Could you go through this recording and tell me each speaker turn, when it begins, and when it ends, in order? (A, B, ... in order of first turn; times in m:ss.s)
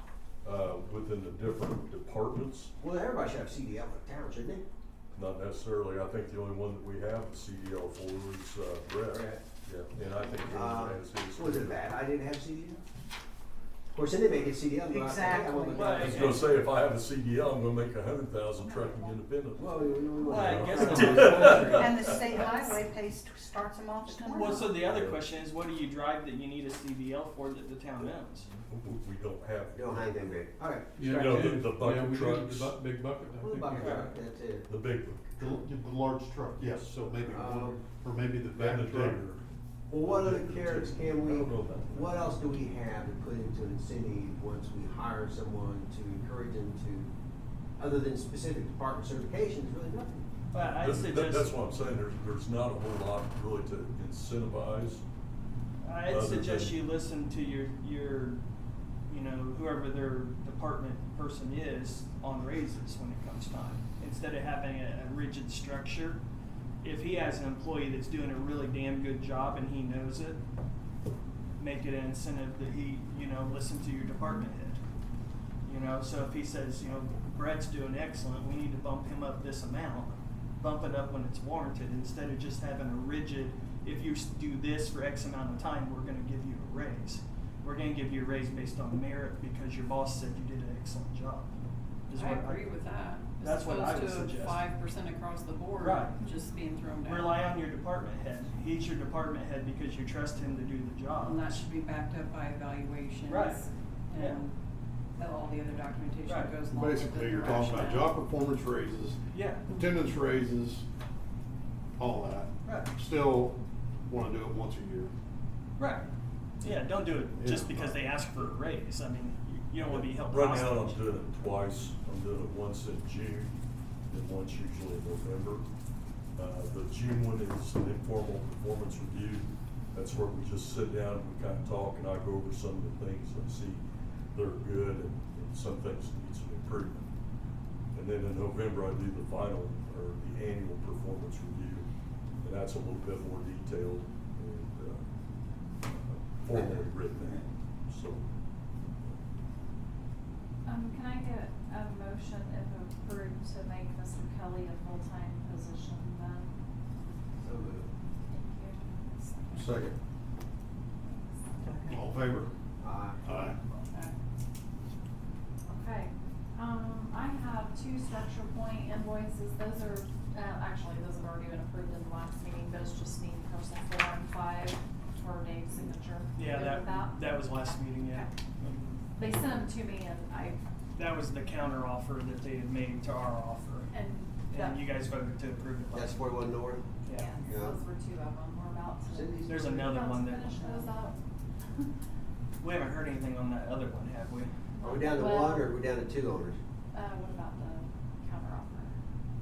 0:00.4-0:02.7 A
0:02.8-0:04.6 B
0:05.1-0:11.9 A
0:09.1-0:09.4 B
0:10.3-0:12.8 B
0:13.9-0:16.4 B
0:14.9-0:15.8 C
0:15.7-0:16.4 D
0:15.8-0:22.2 A
0:18.6-0:19.0 E
0:19.5-0:21.6 B
0:20.2-0:22.4 D
0:21.8-0:24.7 C
0:24.0-0:28.5 D
0:24.6-0:25.2 A
0:28.7-0:30.3 A
0:29.7-0:31.5 B
0:31.0-0:34.1 F
0:31.1-0:32.8 A
0:33.4-0:34.7 B
0:33.7-0:34.1 D
0:34.7-0:35.4 A
0:35.4-0:39.2 G
0:36.6-0:37.0 A
0:37.2-0:37.8 B
0:38.5-0:39.4 A
0:39.9-0:47.1 B
0:40.0-0:42.2 A
0:47.8-0:50.3 B
0:50.5-0:51.5 D
0:50.6-0:55.0 A
0:55.8-0:58.4 D
0:56.1-0:56.7 A
0:59.1-1:06.2 D
1:06.8-1:10.4 D
1:11.6-1:14.8 D
1:15.6-1:31.5 D
1:32.1-1:32.7 D
1:32.1-1:37.4 H
1:33.4-1:34.7 D
1:35.8-1:36.2 D
1:37.0-1:41.6 D
1:41.2-1:44.5 H
1:43.2-1:44.4 D
1:45.2-1:48.2 H
1:46.2-1:46.6 D
1:46.6-1:50.8 G
1:49.3-1:49.6 D
1:52.0-1:55.1 G
1:52.6-1:52.9 D
1:55.8-1:56.1 D
1:56.6-2:01.0 D
1:57.4-1:57.9 G
1:59.9-2:03.5 A
2:04.1-2:05.6 A
2:06.4-2:17.1 A
2:17.9-2:21.9 A
2:22.4-2:25.0 A
2:25.8-2:28.3 A
2:26.5-2:26.8 B
2:30.6-2:36.5 E
2:37.4-2:37.9 B
2:38.2-2:39.7 E
2:39.5-2:39.9 G
2:41.1-2:41.8 E
2:41.8-2:42.5 G
2:42.8-2:43.5 B
2:43.2-2:43.6 G
2:45.7-2:57.3 E
2:56.4-2:59.0 D
2:59.2-3:00.6 E
3:00.9-3:03.9 D
3:03.9-3:04.8 E
3:04.5-3:06.2 D
3:05.9-3:06.8 B
3:07.0-3:07.3 D
3:07.1-3:11.2 E
3:07.4-3:07.8 B
3:09.1-3:10.0 B
3:09.4-3:10.9 D
3:12.6-3:14.5 D
3:14.8-3:15.7 E
3:14.8-3:16.6 B
3:16.9-3:19.0 E